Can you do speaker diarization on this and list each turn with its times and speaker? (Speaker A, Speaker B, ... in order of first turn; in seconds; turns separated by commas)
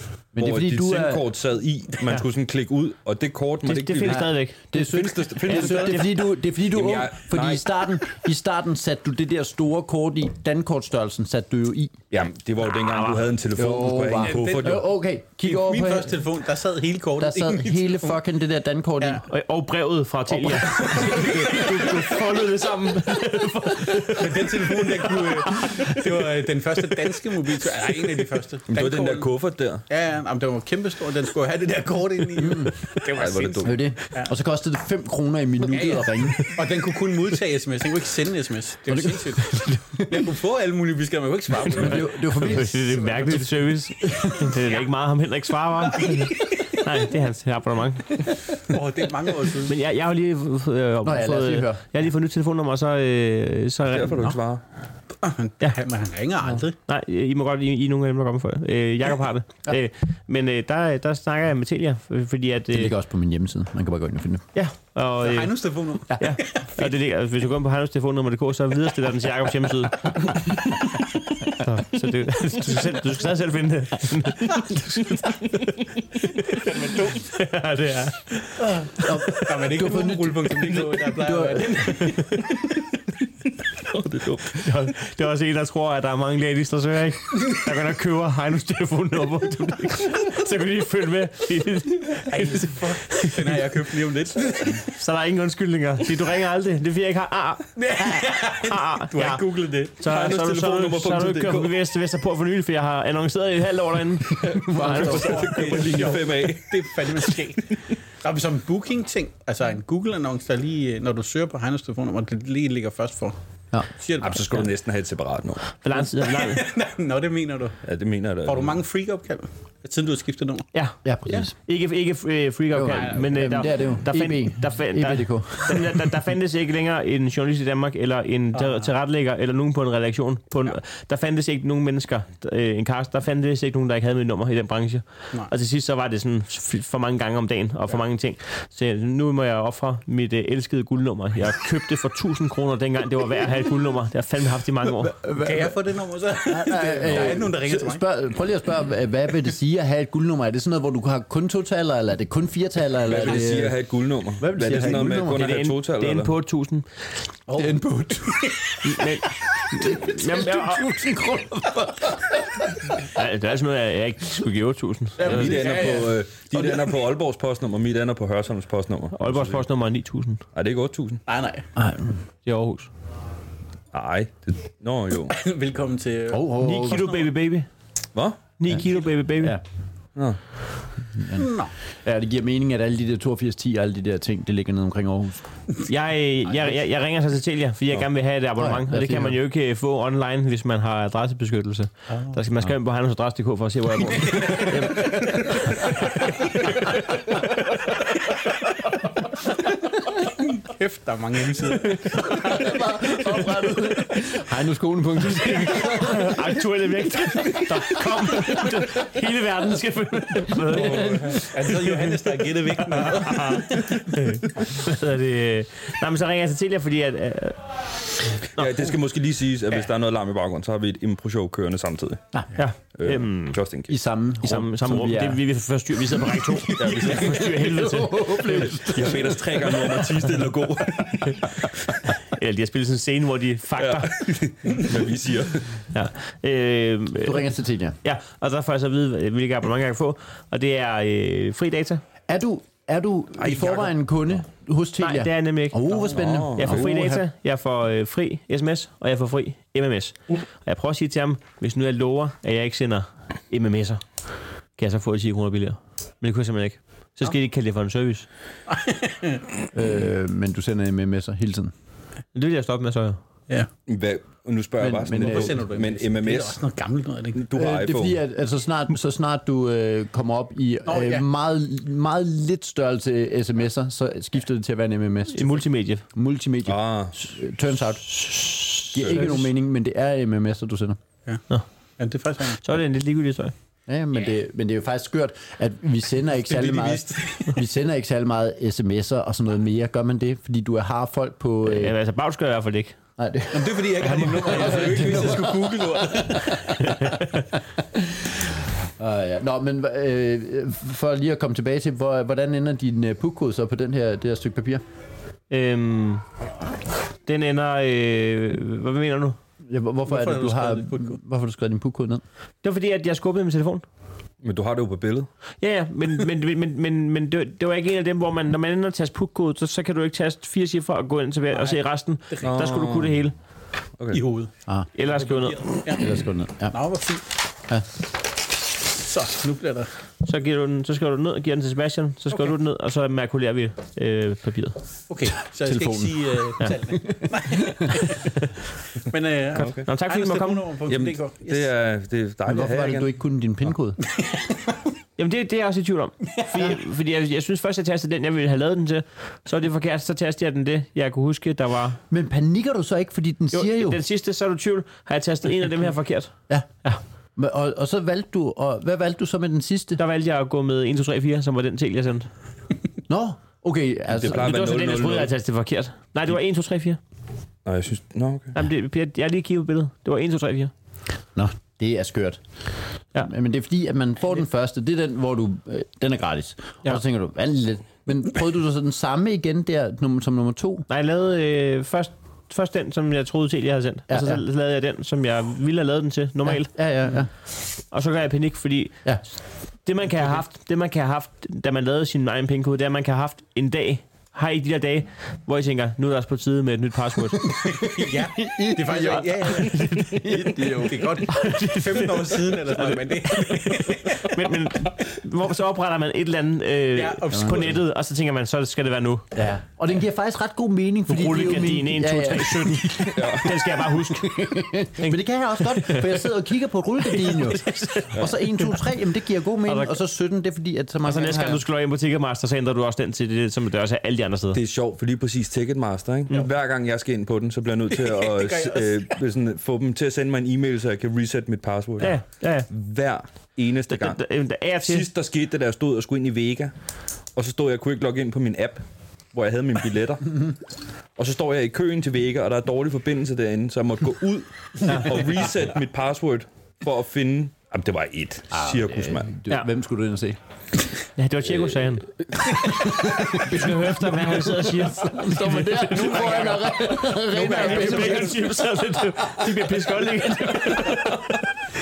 Speaker A: 0.3-1.2, Speaker B: 0.4-6.1, Speaker C: 3.6-4.7, Speaker A: 4.0-12.0, Speaker C: 5.4-6.1, Speaker B: 6.7-7.9, Speaker B: 12.1-14.8, Speaker C: 12.6-13.3, Speaker A: 13.6-16.2, Speaker D: 14.2-14.8, Speaker D: 15.4-18.2, Speaker A: 17.2-19.2, Speaker C: 19.3-26.0, Speaker D: 20.8-21.7, Speaker A: 20.9-22.0, Speaker D: 24.1-29.3, Speaker B: 28.7-29.8, Speaker D: 29.9-34.3, Speaker A: 32.4-32.7, Speaker B: 33.1-33.8, Speaker A: 33.6-36.5, Speaker D: 35.6-43.5, Speaker A: 38.9-40.2, Speaker C: 39.5-39.8, Speaker A: 41.7-43.1, Speaker C: 42.2-48.5, Speaker A: 44.0-44.5, Speaker D: 44.4-44.9, Speaker D: 45.9-46.4, Speaker D: 48.6-49.8, Speaker C: 49.6-54.3, Speaker A: 51.0-51.8, Speaker B: 53.9-54.6, Speaker D: 55.2-56.8, Speaker C: 56.9-62.9, Speaker A: 62.7-64.5, Speaker C: 64.5-65.6, Speaker D: 65.2-66.9, Speaker A: 66.1-66.4, Speaker C: 66.2-79.6, Speaker D: 76.5-77.3, Speaker D: 78.6-82.6, Speaker A: 79.0-82.2, Speaker C: 81.9-82.5, Speaker B: 83.8-84.7, Speaker C: 84.5-93.7, Speaker D: 92.3-94.9, Speaker C: 94.8-105.5, Speaker D: 97.8-100.0, Speaker B: 100.0-101.8, Speaker A: 104.3-106.0, Speaker D: 104.8-113.4, Speaker B: 104.8-107.8, Speaker A: 113.7-114.6, Speaker D: 114.0-114.7, Speaker B: 114.3-115.6, Speaker C: 115.8-116.7, Speaker D: 115.9-117.8, Speaker B: 117.9-118.8, Speaker D: 118.4-120.7, Speaker C: 120.7-145.2, Speaker A: 121.0-121.5, Speaker A: 122.7-126.1, Speaker D: 122.9-123.7, Speaker D: 128.5-128.9, Speaker A: 145.2-145.7, Speaker D: 145.3-148.1, Speaker A: 146.5-153.8, Speaker B: 147.1-147.4, Speaker B: 153.0-156.3, Speaker A: 154.4-155.6, Speaker C: 155.2-156.9, Speaker D: 157.5-158.8, Speaker A: 157.5-158.6, Speaker C: 158.8-160.9, Speaker A: 159.7-163.1, Speaker C: 163.1-165.5, Speaker D: 165.2-166.9, Speaker B: 165.2-169.7, Speaker A: 165.3-165.8, Speaker C: 169.1-170.4, Speaker B: 170.6-171.2, Speaker D: 171.3-171.7, Speaker A: 171.8-172.2, Speaker C: 172.5-172.9, Speaker B: 173.9-175.4, Speaker D: 175.3-177.3, Speaker A: 176.3-177.1, Speaker C: 176.6-177.7, Speaker B: 178.2-178.4, Speaker C: 178.6-179.6, Speaker A: 181.1-181.5, Speaker D: 181.4-181.7, Speaker A: 182.0-185.4, Speaker C: 185.9-198.0, Speaker A: 188.6-189.4, Speaker D: 192.1-192.4, Speaker D: 194.1-194.7, Speaker A: 194.5-195.9, Speaker D: 200.6-202.7, Speaker A: 202.1-206.6, Speaker C: 205.6-217.6, Speaker A: 207.4-208.9, Speaker B: 210.7-211.4, Speaker D: 210.7-214.2, Speaker C: 218.2-218.7, Speaker B: 218.6-222.2, Speaker C: 222.6-223.6, Speaker B: 222.9-224.0, Speaker A: 223.9-225.4, Speaker C: 224.4-228.9, Speaker A: 226.0-230.3, Speaker B: 226.7-227.6, Speaker B: 228.8-231.9, Speaker C: 232.2-234.4, Speaker B: 233.8-235.8, Speaker C: 235.9-237.5, Speaker A: 237.2-238.0, Speaker C: 238.0-242.0, Speaker A: 242.3-247.2, Speaker B: 243.4-243.9, Speaker C: 245.0-254.0, Speaker B: 246.1-246.9, Speaker C: 254.8-258.3, Speaker D: 258.7-259.5, Speaker A: 259.7-261.7, Speaker C: 262.3-263.2, Speaker B: 263.9-266.6, Speaker A: 264.8-265.6, Speaker D: 265.1-267.4, Speaker B: 267.4-268.2, Speaker A: 267.5-281.0, Speaker D: 270.9-271.2, Speaker C: 275.3-276.0, Speaker B: 276.7-277.2, Speaker B: 278.9-279.4, Speaker D: 282.0-282.6, Speaker C: 282.6-283.5, Speaker A: 283.9-292.0, Speaker D: 286.4-287.6, Speaker C: 291.6-293.0, Speaker A: 293.2-297.2, Speaker D: 293.5-296.7, Speaker C: 296.8-297.5, Speaker A: 297.8-304.8, Speaker C: 305.5-306.2, Speaker C: 307.3-309.4, Speaker A: 309.7-312.2, Speaker D: 310.1-311.2, Speaker C: 312.6-313.8, Speaker B: 314.4-315.3, Speaker C: 315.6-323.4, Speaker D: 321.5-321.8, Speaker D: 322.3-322.6, Speaker B: 322.4-323.2, Speaker D: 324.1-324.5, Speaker C: 324.9-325.6, Speaker D: 325.0-326.1, Speaker A: 325.9-326.8, Speaker D: 326.7-327.2, Speaker D: 329.0-329.9, Speaker C: 330.2-334.8, Speaker D: 335.1-338.3, Speaker A: 335.6-336.5, Speaker A: 337.1-338.1, Speaker C: 338.2-338.5, Speaker D: 339.0-341.7, Speaker C: 339.6-340.6, Speaker B: 339.6-339.9, Speaker B: 340.9-343.1, Speaker A: 342.5-344.0, Speaker D: 344.1-344.8, Speaker C: 345.2-352.0, Speaker A: 352.1-354.0, Speaker C: 353.5-356.3, Speaker A: 357.4-360.0, Speaker C: 360.0-362.3, Speaker A: 363.1-364.6, Speaker B: 364.1-365.3, Speaker C: 364.3-367.0, Speaker B: 367.6-368.6, Speaker C: 368.6-370.7, Speaker A: 371.4-372.4, Speaker A: 373.2-380.9, Speaker C: 380.9-386.7, Speaker A: 384.1-384.4, Speaker A: 386.5-387.3, Speaker C: 387.9-389.1, Speaker C: 389.9-397.5, Speaker D: 397.5-404.5, Speaker A: 397.9-401.3, Speaker C: 401.3-409.3, Speaker D: 406.9-407.8, Speaker A: 407.3-407.7, Speaker A: 409.4-421.6, Speaker C: 411.1-416.2, Speaker B: 413.1-413.5, Speaker C: 417.1-418.7, Speaker C: 419.7-419.9, Speaker C: 421.0-424.6, Speaker B: 424.5-434.2, Speaker D: 427.9-429.2, Speaker C: 432.0-432.7, Speaker C: 433.9-435.1, Speaker B: 434.8-436.7, Speaker B: 437.4-440.6, Speaker B: 441.2-449.3, Speaker A: 448.5-450.4, Speaker C: 451.2-452.1, Speaker A: 452.3-458.5, Speaker C: 453.0-456.7, Speaker D: 456.0-458.5, Speaker C: 457.4-461.4, Speaker A: 459.2-459.7, Speaker A: 460.7-460.9